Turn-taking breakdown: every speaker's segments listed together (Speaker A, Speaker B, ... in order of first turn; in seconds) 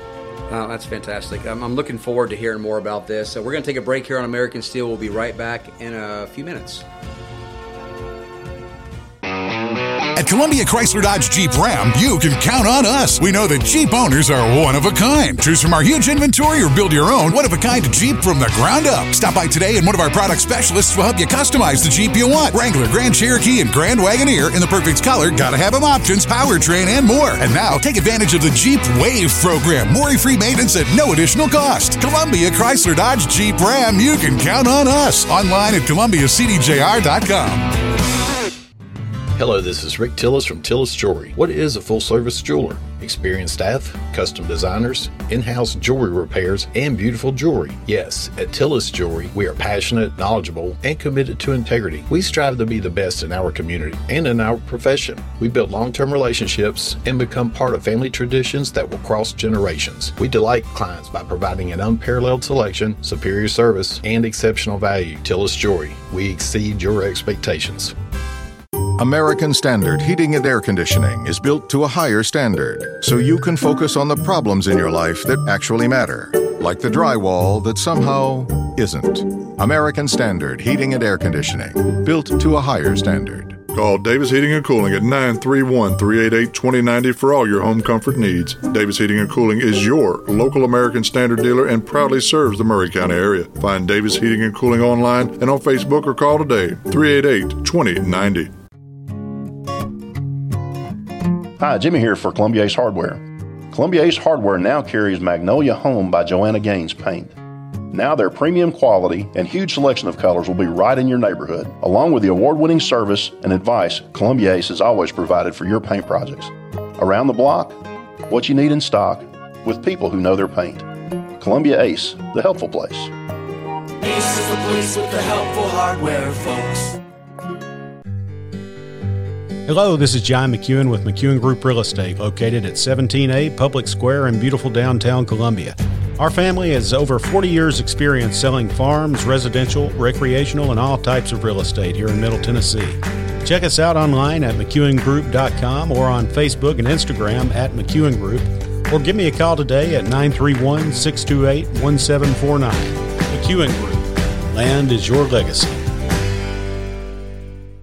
Speaker A: 0.5-6.8
Speaker B: 10.1-37.7
Speaker C: 39.3-67.9
Speaker D: 69.0-83.6
Speaker E: 83.7-98.5
Speaker F: 101.6-107.3, 107.9-120.9, 121.4-123.1
Speaker G: 124.0-126.9
Speaker H: 129.7-155.8